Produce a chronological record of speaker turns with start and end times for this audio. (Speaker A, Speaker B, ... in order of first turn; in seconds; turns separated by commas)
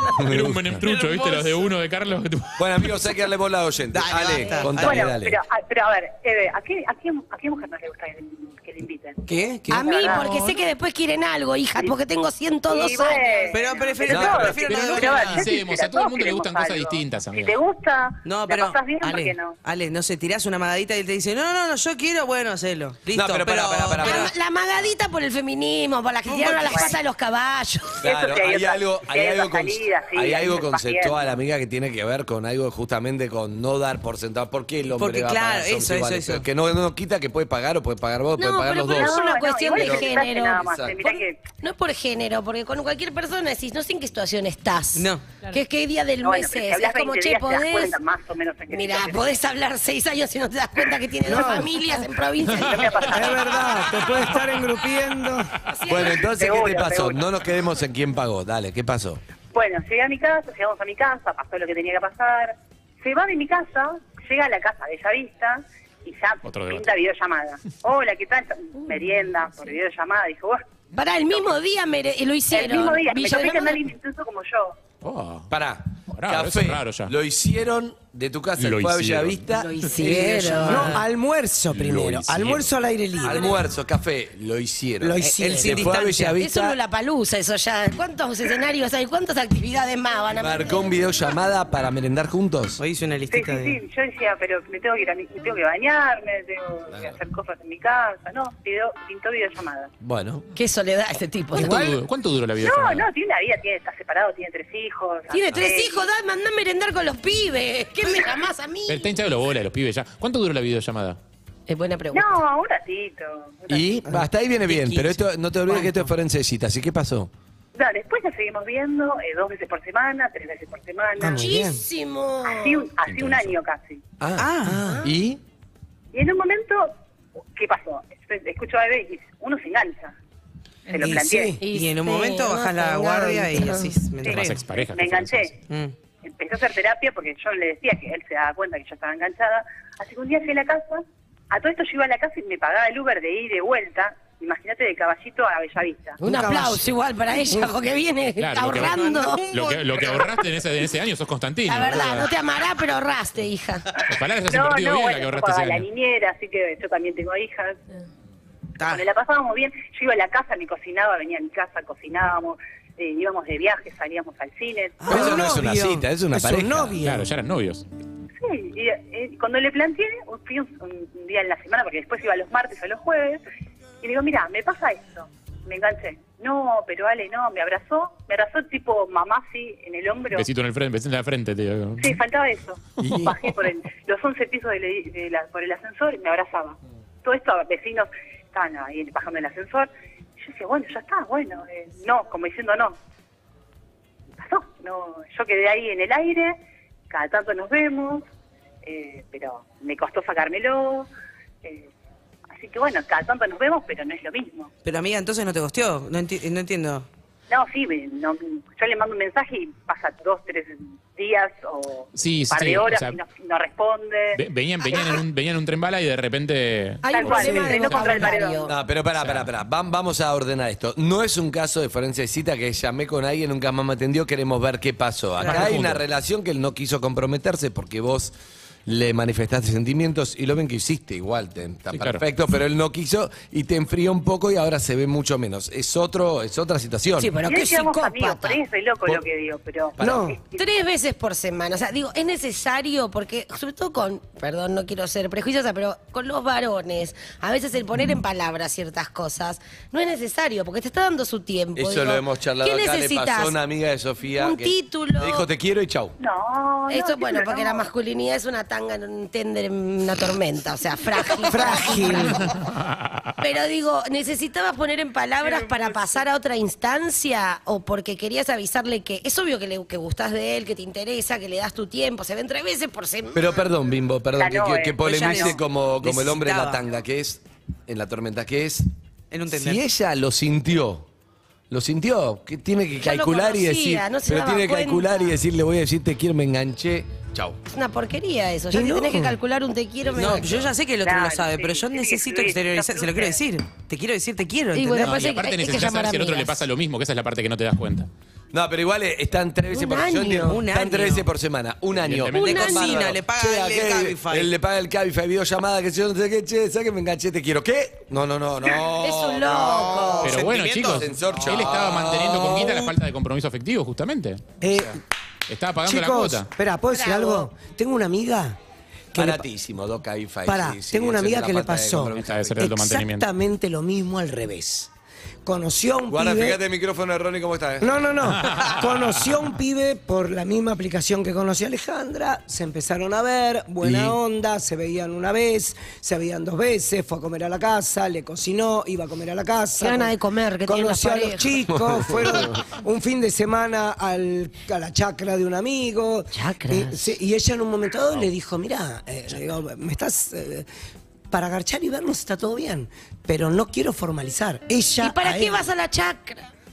Speaker A: 0.1-0.8, Speaker B: 0.2-3.0, Speaker C: 0.8-1.7, Speaker A: 2.6-5.4, Speaker C: 3.9-5.1, Speaker D: 4.7-9.2, Speaker C: 9.3-9.9, Speaker E: 9.7-13.7, Speaker D: 9.8-10.3, Speaker D: 12.7-19.6, Speaker C: 13.5-15.5, Speaker A: 14.1-14.6, Speaker B: 14.7-17.6, Speaker C: 18.2-24.3, Speaker A: 23.1-24.3, Speaker E: 24.0-28.1, Speaker C: 26.3-27.0, Speaker D: 26.6-27.0, Speaker A: 28.0-39.2, Speaker D: 28.0-31.3, Speaker C: 35.0-36.5, Speaker E: 38.4-48.0, Speaker D: 38.9-41.4, Speaker A: 39.7-41.0, Speaker C: 45.0-45.3, Speaker D: 46.2-49.3, Speaker E: 48.7-53.2, Speaker F: 51.3-51.7, Speaker D: 52.5-53.9, Speaker F: 53.0-55.6, Speaker B: 54.0-54.4, Speaker E: 55.7-56.2, Speaker A: 55.9-59.2, Speaker D: 56.1-57.3, Speaker D: 59.5-70.6, Speaker B: 66.5-66.9, Speaker E: 70.9-73.8, Speaker D: 72.5-74.8, Speaker B: 75.0-75.5, Speaker A: 75.5-81.0, Speaker B: 76.1-77.1, Speaker B: 78.6-79.4, Speaker E: 79.5-81.0, Speaker F: 80.0-83.6, Speaker A: 81.8-82.6, Speaker B: 82.0-82.6, Speaker A: 83.2-86.8, Speaker F: 85.0-85.9, Speaker C: 85.3-86.4, Speaker E: 86.4-91.0, Speaker A: 90.3-92.8, Speaker C: 92.8-93.8, Speaker D: 93.3-99.9, Speaker A: 96.9-97.2, Speaker A: 100.0-100.4, Speaker E: 100.5-101.9, Speaker B: 101.5-103.1, Speaker F: 101.6-102.0, Speaker D: 102.6-106.1, Speaker E: 105.3-109.1, Speaker B: 108.9-111.2, Speaker E: 111.7-112.3, Speaker D: 112.1-114.0, Speaker A: 113.7-117.3, Speaker C: 114.7-116.0, Speaker D: 117.8-121.5, Speaker F: 121.2-121.8, Speaker E: 121.4-122.8, Speaker D: 122.5-124.0, Speaker A: 124.2-125.4, Speaker C: 124.4-124.8, Speaker F: 124.7-125.1, Speaker D: 126.1-126.9, Speaker D: 127.6-130.2, Speaker D: 130.9-131.6, Speaker F: 131.0-131.6, Speaker E: 131.6-133.9, Speaker C: 131.7-134.6, Speaker D: 134.2-135.5, Speaker B: 134.2-135.5, Speaker C: 135.7-135.9, Speaker D: 136.2-146.2, Speaker F: 146.2-146.9, Speaker E: 146.2-149.4, Speaker F: 147.5-147.8, Speaker B: 148.4-152.3, Speaker C: 148.8-150.4, Speaker E: 151.7-153.9, Speaker B: 154.1-155.9, Speaker D: 154.5-157.8, Speaker C: 158.8-159.1, Speaker D: 158.8-165.3, Speaker C: 165.0-165.5, Speaker A: 165.1-167.0, Speaker F: 165.1-167.3, Speaker B: 167.0-167.8, Speaker D: 168.4-173.4, Speaker D: 174.0-180.5, Speaker B: 180.3-182.2, Speaker D: 182.0-193.0, Speaker B: 183.0-183.6, Speaker D: 194.4-196.6, Speaker D: 197.1-198.2, Speaker D: 198.8-201.1, Speaker D: 202.5-204.7, Speaker C: 204.8-207.1, Speaker D: 207.5-214.4, Speaker B: 212.2-213.2, Speaker B: 214.3-217.1, Speaker D: 214.9-215.2, Speaker E: 217.0-218.7, Speaker D: 217.1-218.7, Speaker F: 217.2-218.3, Speaker B: 217.9-218.2, Speaker A: 218.7-228.3, Speaker B: 219.2-219.5, Speaker B: 225.4-226.0, Speaker A: 228.9-237.3, Speaker B: 231.9-232.2, Speaker E: 237.1-238.6, Speaker D: 237.4-240.7, Speaker A: 240.0-240.3, Speaker F: 240.0-240.4, Speaker E: 240.6-253.6, Speaker A: 251.8-256.2, Speaker E: 254.4-255.5, Speaker D: 256.2-257.9, Speaker E: 256.9-262.5, Speaker F: 261.5-262.5, Speaker B: 262.5-263.0, Speaker E: 263.4-273.6, Speaker A: 273.3-278.9, Speaker D: 274.4-275.6, Speaker C: 275.0-276.9, Speaker C: 279.3-279.8, Speaker A: 279.5-281.1, Speaker A: 281.7-287.6, Speaker E: 283.0-285.3, Speaker E: 287.7-290.6, Speaker F: 288.7-289.4, Speaker C: 290.1-295.4, Speaker A: 290.4-290.7, Speaker D: 291.0-293.4, Speaker E: 294.7-296.6, Speaker B: 295.1-298.1, Speaker A: 298.5-312.9, Speaker E: 299.7-300.6, Speaker C: 300.4-301.3, Speaker B: 302.0-303.0, Speaker E: 302.3-303.1, Speaker C: 302.4-304.5, Speaker E: 308.8-310.4, Speaker C: 309.5-311.9, Speaker B: 310.2-314.9, Speaker F: 314.6-315.0, Speaker B: 315.5-316.5, Speaker F: 315.8-318.6, Speaker E: 316.9-317.5, Speaker F: 319.1-319.4, Speaker A: 319.1-322.7, Speaker F: 320.5-324.9, Speaker B: 322.1-323.3, Speaker F: 325.4-326.6, Speaker A: 326.1-328.1, Speaker F: 327.8-340.1, Speaker B: 328.2-329.4, Speaker A: 333.8-334.2, Speaker E: 339.8-341.6, Speaker F: 340.7-350.7, Speaker A: 341.7-342.6, Speaker E: 346.3-347.0, Speaker F: 351.3-355.7, Speaker E: 355.0-356.5